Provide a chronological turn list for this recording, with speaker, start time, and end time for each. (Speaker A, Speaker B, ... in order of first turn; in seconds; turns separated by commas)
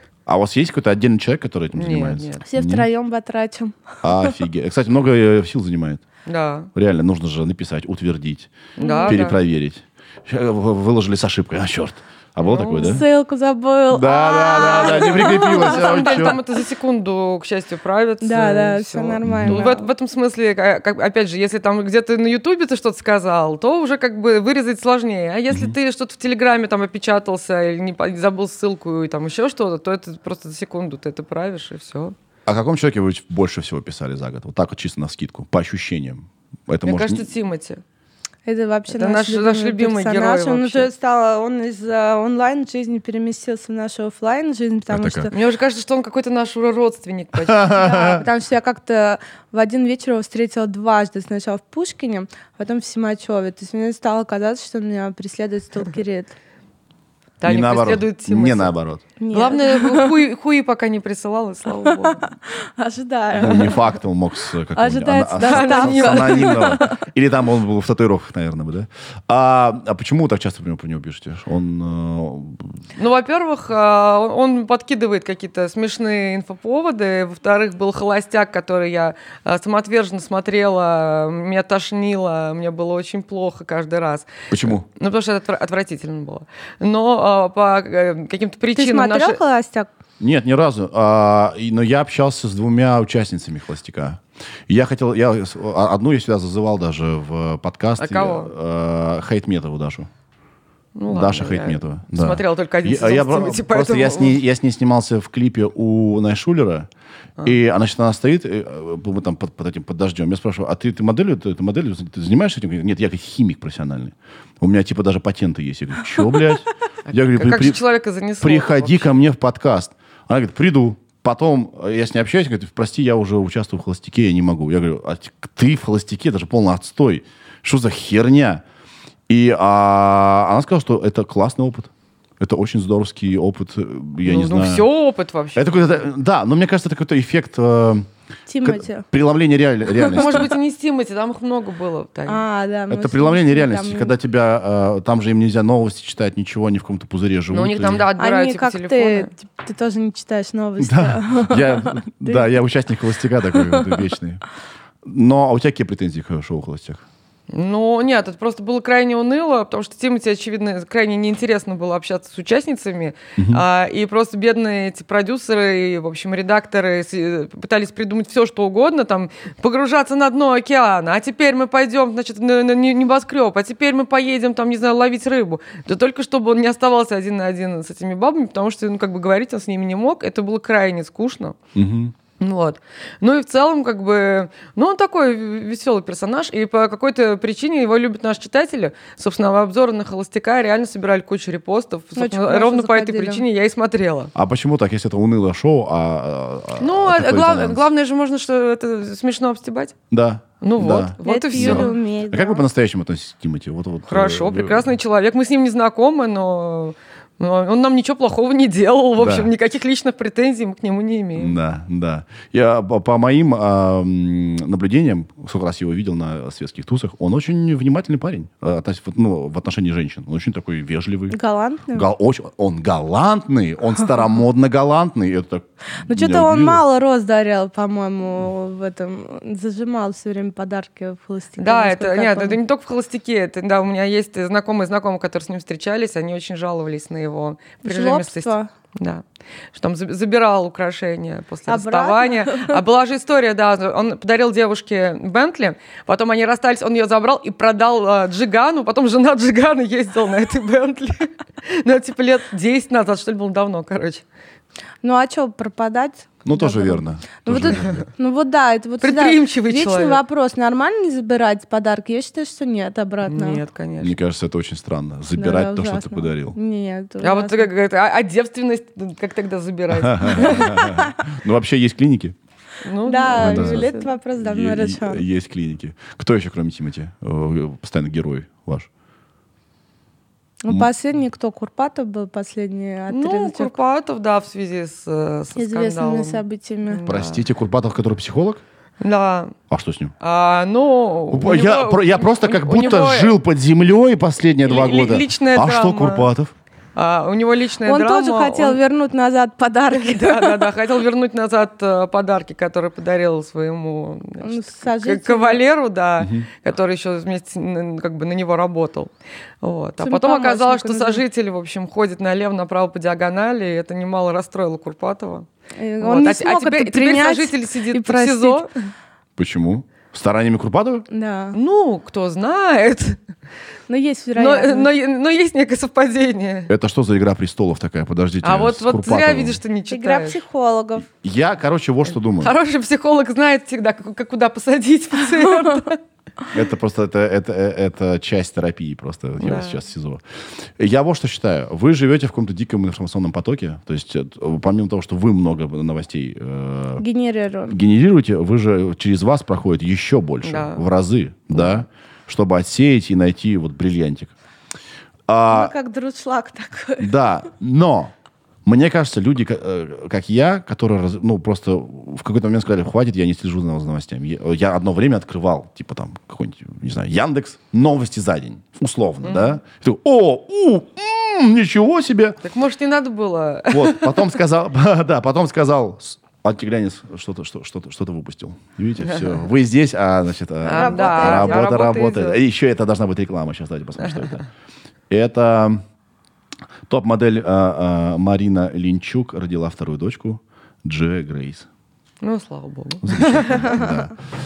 Speaker A: 0.2-2.9, Speaker B: 1.7-2.4, Speaker C: 2.4-4.3, Speaker A: 4.0-6.0, Speaker B: 6.2-6.7, Speaker A: 6.7-8.5, Speaker B: 8.8-9.4, Speaker C: 8.8-9.2, Speaker A: 9.1-13.1, Speaker B: 12.4-13.0, Speaker C: 12.8-16.3, Speaker A: 13.9-16.4, Speaker B: 14.5-32.1, Speaker C: 18.2-19.9, Speaker A: 19.2-19.6, Speaker A: 25.5-25.8, Speaker A: 32.5-37.3, Speaker B: 36.8-37.8, Speaker C: 38.5-45.3, Speaker B: 38.9-40.9, Speaker A: 44.9-45.3, Speaker B: 45.3-47.8, Speaker A: 47.4-48.2, Speaker C: 47.7-56.3, Speaker B: 57.4-58.7, Speaker A: 57.4-59.0, Speaker C: 59.2-60.1, Speaker B: 59.3-62.2, Speaker C: 61.8-63.8, Speaker A: 63.3-72.8, Speaker B: 63.5-63.8, Speaker C: 64.8-67.0, Speaker B: 65.4-66.8, Speaker B: 73.0-89.4, Speaker A: 84.5-84.8, Speaker C: 88.7-89.9, Speaker A: 90.2-100.1, Speaker B: 98.0-98.5, Speaker B: 101.0-104.4, Speaker A: 101.1-106.9, Speaker A: 107.4-117.8, Speaker B: 117.0-119.2, Speaker A: 118.4-128.6, Speaker A: 129.3-134.8, Speaker B: 134.2-136.1, Speaker A: 135.6-138.1, Speaker C: 138.5-139.1, Speaker A: 138.6-140.5, Speaker B: 140.1-142.4, Speaker C: 142.3-144.1, Speaker A: 142.9-148.1, Speaker B: 147.5-149.3, Speaker C: 148.2-152.4, Speaker A: 150.8-154.4, Speaker C: 153.7-154.0, Speaker A: 155.0-157.0, Speaker B: 157.5-181.6, Speaker A: 163.4-163.6, Speaker A: 181.7-182.1, Speaker B: 182.4-194.3, Speaker C: 192.2-193.4, Speaker A: 194.3-197.8, Speaker B: 196.8-199.9, Speaker A: 200.1-204.9, Speaker B: 200.6-201.9, Speaker C: 201.2-202.6, Speaker B: 204.1-211.6, Speaker A: 209.2-209.5, Speaker A: 211.3-221.3, Speaker C: 221.3-222.1, Speaker A: 221.9-226.8, Speaker C: 226.1-232.6, Speaker B: 231.6-254.2, Speaker C: 237.8-238.7, Speaker C: 241.7-242.8, Speaker C: 255.0-263.6, Speaker A: 256.4-258.0, Speaker B: 259.0-260.2, Speaker B: 263.2-264.1, Speaker A: 264.0-266.6, Speaker C: 265.3-267.7, Speaker B: 267.2-270.8, Speaker A: 270.0-272.3, Speaker C: 270.3-271.1, Speaker B: 272.8-274.1, Speaker C: 273.1-275.2, Speaker A: 273.3-273.9, Speaker A: 274.4-278.9, Speaker C: 280.6-283.7, Speaker B: 283.1-287.4, Speaker C: 285.6-287.0, Speaker A: 287.1-288.6, Speaker B: 289.0-289.6, Speaker A: 289.7-290.1, Speaker B: 290.2-293.4, Speaker A: 291.3-296.5, Speaker B: 294.6-296.3, Speaker B: 296.9-298.8, Speaker C: 297.8-300.7, Speaker B: 299.9-315.5, Speaker C: 304.4-305.6, Speaker A: 306.2-306.5, Speaker C: 310.0-311.2, Speaker C: 315.8-318.7, Speaker B: 316.0-318.7, Speaker A: 319.4-321.1, Speaker C: 321.1-321.6, Speaker B: 321.5-323.2, Speaker C: 323.9-324.9, Speaker B: 324.4-326.7, Speaker A: 326.7-329.6, Speaker B: 328.4-330.4, Speaker C: 329.9-331.1, Speaker A: 331.1-332.5, Speaker B: 332.4-336.0, Speaker A: 336.5-340.2, Speaker B: 339.4-339.8, Speaker A: 340.8-347.0, Speaker C: 347.0-347.8, Speaker A: 347.7-354.3, Speaker B: 350.4-350.8, Speaker A: 355.3-355.7, Speaker C: 355.5-357.1, Speaker A: 357.0-358.1, Speaker A: 358.6-372.4, Speaker B: 369.2-369.6, Speaker B: 372.4-374.4, Speaker A: 373.7-384.4, Speaker B: 379.0-379.3, Speaker B: 380.6-382.4, Speaker C: 380.7-381.6, Speaker A: 385.1-385.8, Speaker A: 386.9-391.7, Speaker B: 392.2-393.8, Speaker A: 393.0-394.1